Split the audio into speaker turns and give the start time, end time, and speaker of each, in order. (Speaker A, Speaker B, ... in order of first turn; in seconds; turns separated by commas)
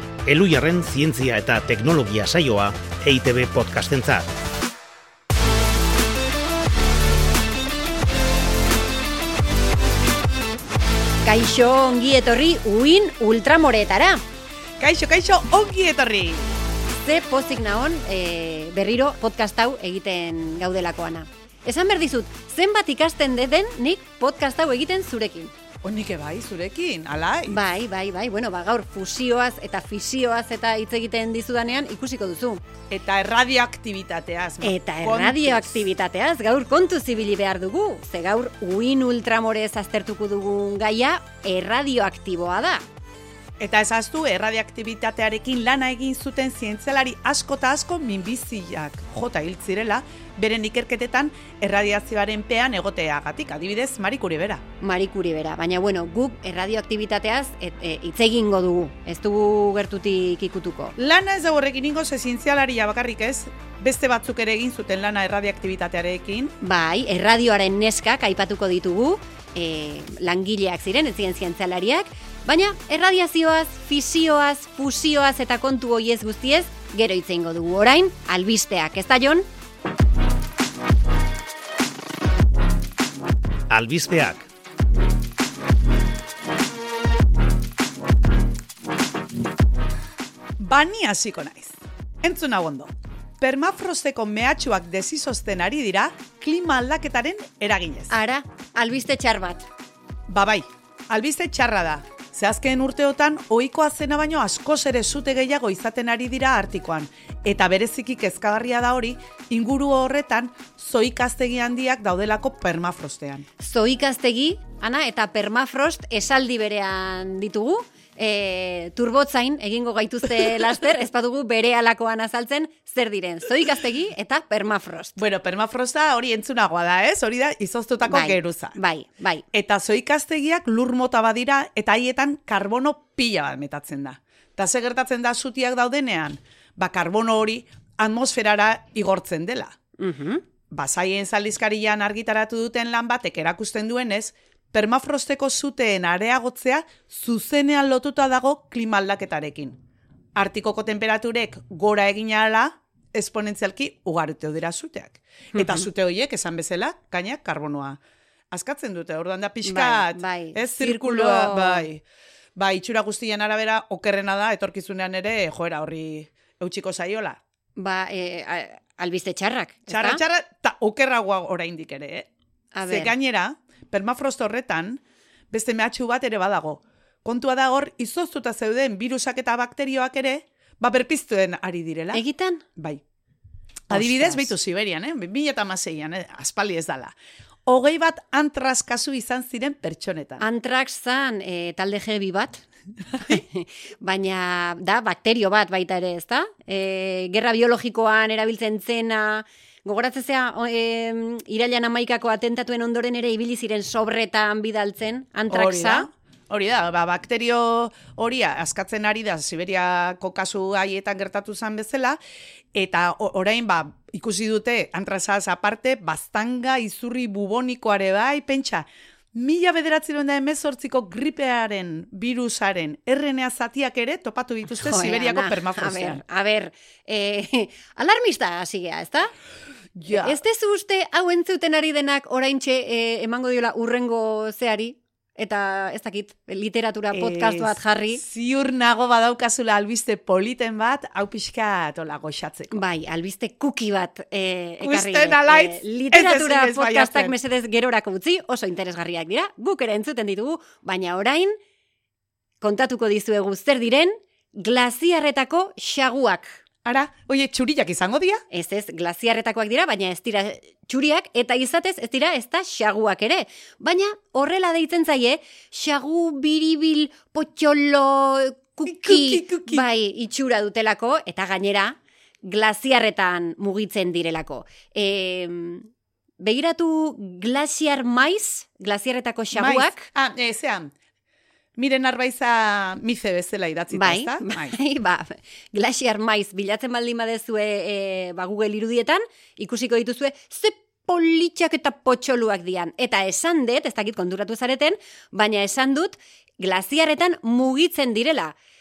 Speaker A: 0.2-4.3, Speaker B: 11.2-14.2, Speaker C: 14.8-16.6, Speaker B: 16.9-25.5, Speaker C: 25.8-27.6, Speaker B: 27.5-32.6, Speaker C: 32.9-35.8, Speaker B: 34.6-42.8, Speaker C: 43.6-54.6, Speaker B: 54.8-61.0, Speaker C: 61.0-66.5, Speaker B: 66.6-79.5, Speaker A: 83.7-84.5, Speaker C: 90.6-98.1, Speaker B: 98.1-99.7, Speaker C: 100.3-113.5, Speaker B: 113.6-125.2, Speaker C: 125.2-128.8, Speaker B: 128.0-129.4, Speaker C: 129.5-139.8, Speaker B: 140.0-140.4, Speaker C: 140.7-149.8, Speaker C: 150.3-158.0, Speaker B: 155.5-155.9, Speaker C: 158.5-162.0, Speaker B: 159.6-161.9, Speaker C: 162.6-167.4, Speaker B: 167.8-170.2, Speaker C: 169.9-172.3, Speaker B: 172.7-173.1, Speaker C: 172.9-182.2, Speaker B: 182.1-182.6, Speaker C: 182.8-183.0, Speaker B: 183.9-184.5, Speaker C: 183.9-187.1, Speaker C: 187.7-190.4, Speaker B: 190.4-192.6, Speaker B: 193.2-206.1, Speaker C: 205.5-212.2, Speaker C: 212.7-226.2, Speaker B: 224.8-229.3, Speaker C: 229.9-230.4, Speaker B: 230.1-238.2, Speaker C: 237.1-242.8, Speaker B: 242.7-251.5, Speaker C: 244.8-247.3, Speaker B: 252.6-256.6, Speaker C: 256.8-258.4, Speaker B: 258.5-275.9, Speaker C: 268.8-269.9, Speaker B: 276.4-280.1, Speaker C: 279.5-280.9, Speaker C: 281.8-284.8, Speaker B: 283.9-298.5